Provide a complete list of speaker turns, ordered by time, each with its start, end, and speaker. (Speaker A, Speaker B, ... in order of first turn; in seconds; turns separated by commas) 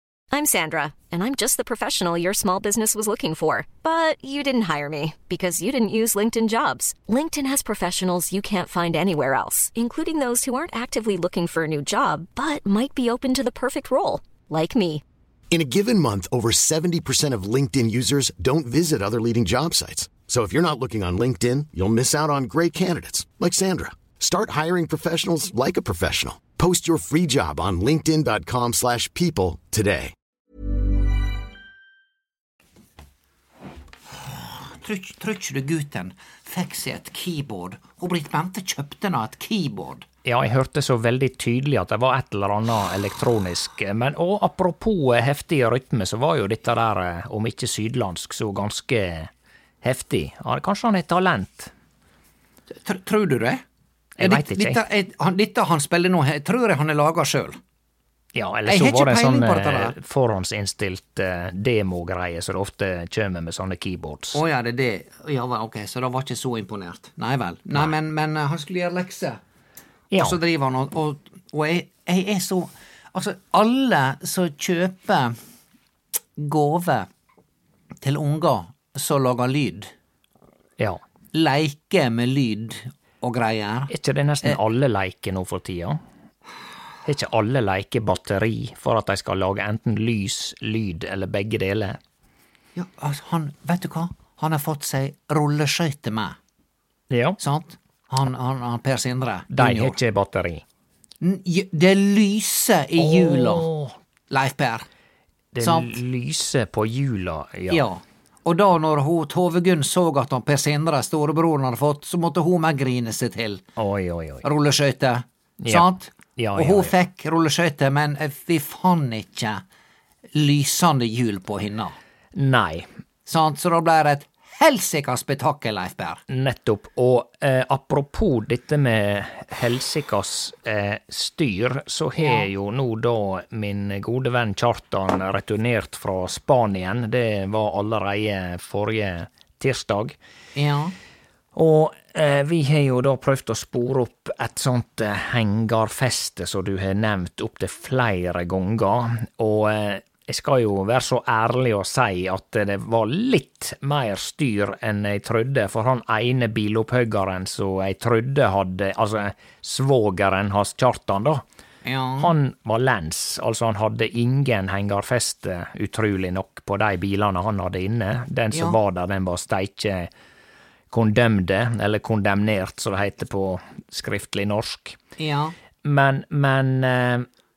Speaker A: 0.3-15.0, Speaker B: 15.5-30.1, Speaker C: 34.6-40.0, Speaker D: 40.2-49.3, Speaker D: 49.8-51.7, Speaker C: 52.8-53.6, Speaker D: 54.2-54.8, Speaker C: 54.2-57.6, Speaker D: 58.3-64.4, Speaker C: 58.6-59.9, Speaker C: 64.3-69.4, Speaker D: 70.1-70.4, Speaker C: 70.1-75.3, Speaker C: 76.4-77.1, Speaker C: 78.0-79.9, Speaker C: 81.3-83.9, Speaker D: 83.9-86.0, Speaker D: 87.0-92.0, Speaker C: 92.8-96.4, Speaker D: 97.1-97.4, Speaker C: 97.4-100.0, Speaker D: 99.5-100.6, Speaker C: 101.2-103.7, Speaker D: 103.0-103.9, Speaker C: 104.3-104.9, Speaker D: 105.5-107.8, Speaker C: 105.6-106.0, Speaker C: 107.7-113.6, Speaker D: 113.8-114.4, Speaker C: 114.4-119.6, Speaker D: 115.6-116.9, Speaker C: 120.3-122.0, Speaker D: 122.3-122.9, Speaker C: 123.2-126.2, Speaker D: 126.3-140.2, Speaker C: 132.2-132.5, Speaker C: 140.6-140.9, Speaker D: 141.5-161.4, Speaker C: 161.8-162.3, Speaker D: 162.2-170.1, Speaker C: 168.5-168.8, Speaker D: 170.9-175.0, Speaker C: 175.2-175.5, Speaker D: 175.8-177.2